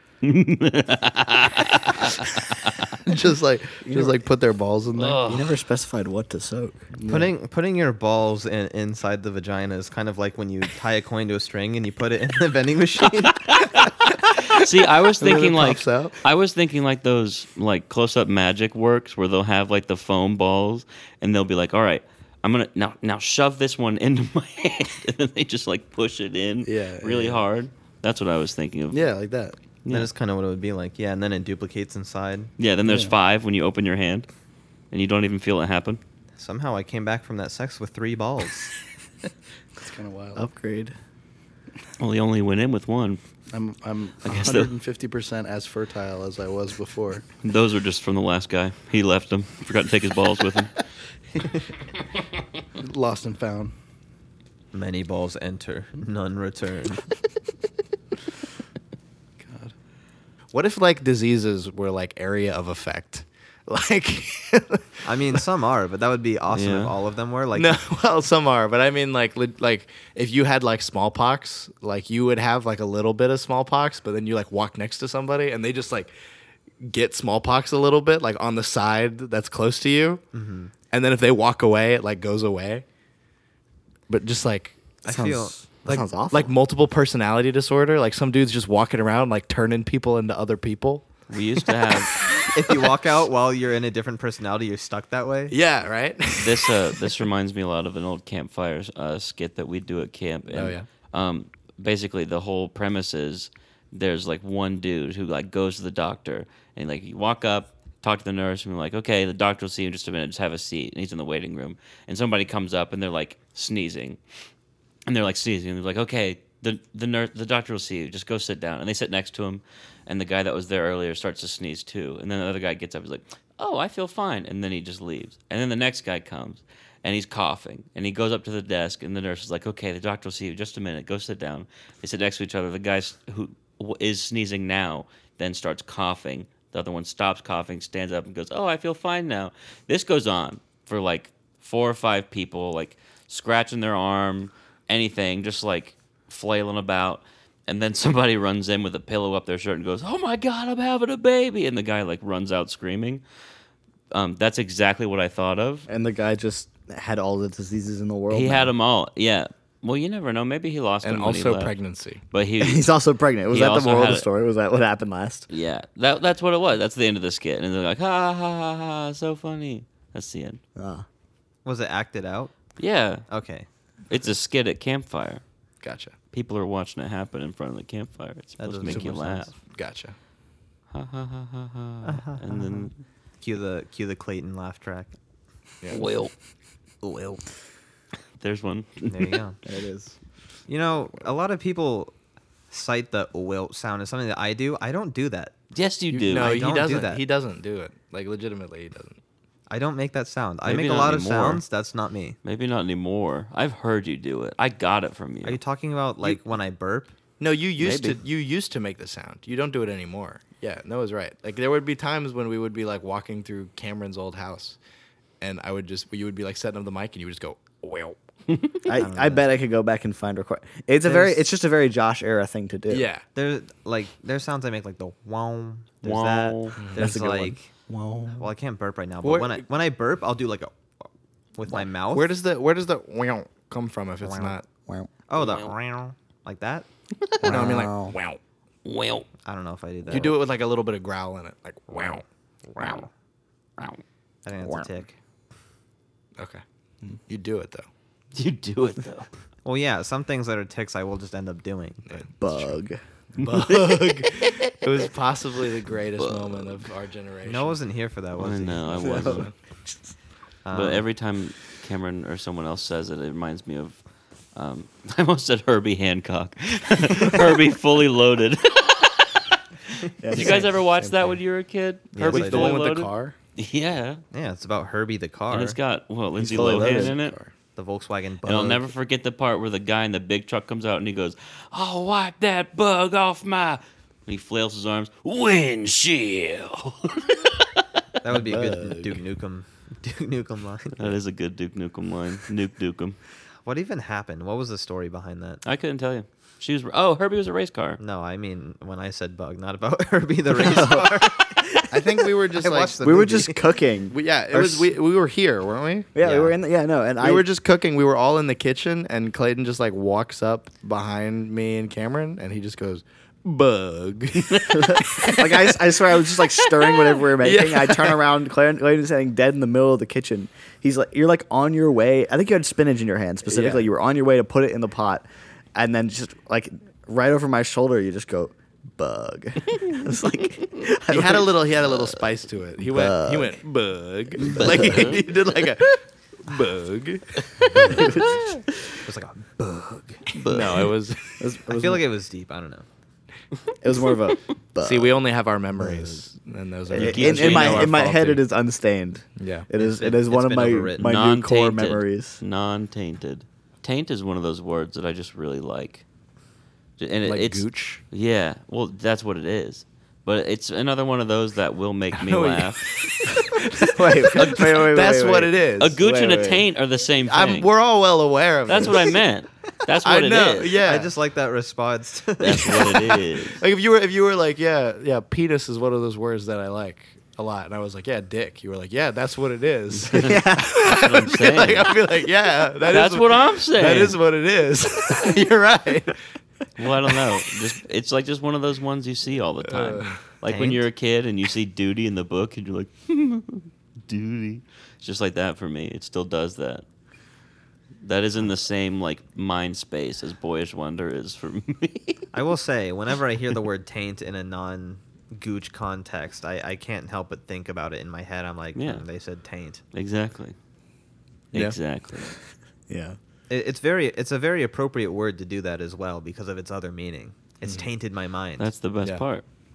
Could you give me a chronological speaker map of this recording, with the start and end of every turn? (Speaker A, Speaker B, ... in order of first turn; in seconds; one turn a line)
Speaker A: 0.2-2.9
Speaker B: 3.0-5.2
Speaker C: 3.9-4.2
Speaker A: 5.0-5.5
Speaker C: 5.2-6.9
Speaker B: 7.0-7.3
Speaker D: 7.1-13.7
Speaker A: 13.2-29.0
Speaker B: 15.2-16.2
Speaker B: 26.6-27.4
Speaker B: 28.9-29.6
Speaker A: 29.9-30.1
Speaker D: 29.9-32.5
Speaker A: 32.6-34.3
Speaker B: 32.9-33.1
Speaker A: 34.9-36.0
Speaker D: 36.4-38.7
Speaker B: 39.8-40.4
Speaker C: 40.4-41.0
Speaker A: 42.0-43.2
Speaker B: 43.5-47.2
Speaker A: 44.2-44.7
Speaker A: 47.4-50.8
Speaker B: 52.8-53.7
Speaker D: 54.7-57.1
Speaker B: 59.4-59.7
Speaker B: 60.5-65.4
Speaker D: 65.0-67.8
Speaker A: 66.5-66.9
Speaker B: 67.5-76.1
Speaker B: 76.8-80.2
Speaker D: 80.3-80.7
Speaker B: 80.9-82.8
Speaker B: 84.1-84.8
Speaker D: 85.0-86.0
Speaker C: 85.1-86.5
Speaker B: 86.3-91.1
Speaker A: 91.3-92.2
Speaker B: 91.9-92.5
Speaker D: 92.5-95.5
Speaker B: 95.5-97.2
Speaker A: 96.4-114.2
Speaker B: 100.5-100.9
Speaker A: 115.1-153.2
Speaker A: 154.1-155.9
Speaker C: 155.9-158.7
Speaker A: 158.3-161.7
Speaker B: 161.0-162.2
Speaker A: 162.3-162.9
Speaker C: 162.6-165.5
Speaker A: 163.5-164.3
Speaker A: 165.5-170.6
Speaker C: 170.8-171.1
Speaker D: 171.7-172.5
Speaker A: 172.8-173.2
Speaker D: 173.3-173.7
Speaker A: 174.1-175.4
Speaker B: 175.8-176.1
Speaker A: 176.3-179.5
Speaker D: 178.6-179.6
Speaker B: 178.9-180.2
Speaker A: 180.9-183.0
Speaker D: 182.0-182.9
Speaker D: 183.4-185.1
Speaker A: 185.9-186.3
Speaker D: 187.0-187.4
Speaker A: 188.4-189.4
Speaker D: 189.1-189.6
Speaker C: 189.7-190.1
Speaker D: 190.7-192.1
Speaker D: 192.7-195.5
Speaker A: 195.7-196.6
Speaker B: 196.1-199.2
Speaker D: 196.3-197.2
Speaker D: 199.7-202.4
Speaker A: 200.7-201.6
Speaker A: 202.4-205.6
Speaker D: 205.4-207.1
Speaker B: 207.4-214.8
Speaker A: 207.8-208.2
Speaker B: 215.4-218.2
Speaker C: 218.8-223.1
Speaker D: 218.9-219.5
Speaker B: 221.1-221.4
Speaker B: 222.9-223.2
Speaker D: 223.3-227.7
Speaker A: 226.0-226.8
Speaker B: 226.8-227.1
Speaker C: 226.9-228.5
Speaker D: 228.3-230.8
Speaker B: 229.2-229.6
Speaker D: 231.6-232.3
Speaker B: 232.1-234.7
Speaker D: 234.3-234.5
Speaker D: 235.3-236.9
Speaker A: 235.4-235.7
Speaker B: 237.4-238.4
Speaker C: 237.4-238.2
Speaker A: 238.8-239.3
Speaker D: 239.4-240.4
Speaker B: 240.1-242.2
Speaker B: 242.8-243.1
Speaker D: 244.4-245.2
Speaker B: 246.4-247.9
Speaker A: 248.3-249.3
Speaker D: 249.7-252.2
Speaker B: 252.1-252.7
Speaker C: 252.4-253.0
Speaker B: 253.3-257.8
Speaker A: 253.6-254.5
Speaker A: 256.2-256.8
Speaker D: 257.4-259.2
Speaker A: 258.4-259.5
Speaker C: 259.0-259.5
Speaker B: 259.2-259.5
Speaker D: 260.6-261.0
Speaker A: 260.7-264.0
Speaker A: 264.6-269.6
Speaker C: 270.2-270.7
Speaker A: 270.3-274.2
Speaker B: 270.3-271.3
Speaker D: 272.1-272.8
Speaker B: 272.2-273.4
Speaker D: 274.3-275.8
Speaker A: 275.5-277.4
Speaker C: 276.4-277.1
Speaker B: 276.4-277.5
Speaker D: 277.8-278.9
Speaker A: 278.4-287.8
Speaker D: 288.2-291.2
Speaker B: 288.5-289.1
Speaker A: 291.0-293.2
Speaker D: 293.6-295.6
Speaker A: 295.6-298.0
Speaker D: 298.0-301.6
Speaker C: 300.6-302.2
Speaker B: 301.9-303.0
Speaker D: 302.6-303.6
Speaker C: 303.0-304.9
Speaker B: 304.1-306.1
Speaker C: 306.1-307.5
Speaker D: 306.2-306.5
Speaker B: 307.2-316.0
Speaker C: 314.7-332.1
Speaker B: 316.9-318.2
Speaker B: 323.5-323.9
Speaker B: 331.1-338.3
Speaker C: 332.8-333.6
Speaker C: 334.4-335.2
Speaker A: 334.4-335.2
Speaker C: 337.9-338.4
Speaker D: 339.1-340.2
Speaker A: 340.4-340.9
Speaker B: 340.4-341.4
Speaker C: 341.4-342.0
Speaker D: 341.7-342.9
Speaker C: 343.8-345.2
Speaker B: 344.8-348.4
Speaker C: 345.8-346.2
Speaker C: 346.9-352.4
Speaker A: 346.9-348.0
Speaker B: 349.4-349.7
Speaker D: 349.8-351.1
Speaker A: 351.0-356.1
Speaker A: 357.0-363.1
Speaker B: 357.2-358.0
Speaker B: 362.2-366.0
Speaker C: 363.8-366.7
Speaker A: 365.8-367.7
Speaker B: 367.3-369.2
Speaker A: 368.7-370.8
Speaker B: 370.0-371.1
Speaker D: 370.8-373.1
Speaker A: 372.4-373.6
Speaker B: 373.6-386.2
Speaker A: 380.0-381.9
Speaker C: 380.1-380.8
Speaker A: 382.8-384.2
Speaker A: 386.8-396.9
Speaker B: 389.6-390.2
Speaker D: 390.5-390.8
Speaker A: 398.0-402.3
Speaker D: 402.3-409.8
Speaker A: 408.8-409.0
Speaker A: 409.9-410.6
Speaker A: 411.5-412.3
Speaker C: 412.9-413.2
Speaker D: 413.5-418.7
Speaker A: 418.6-419.4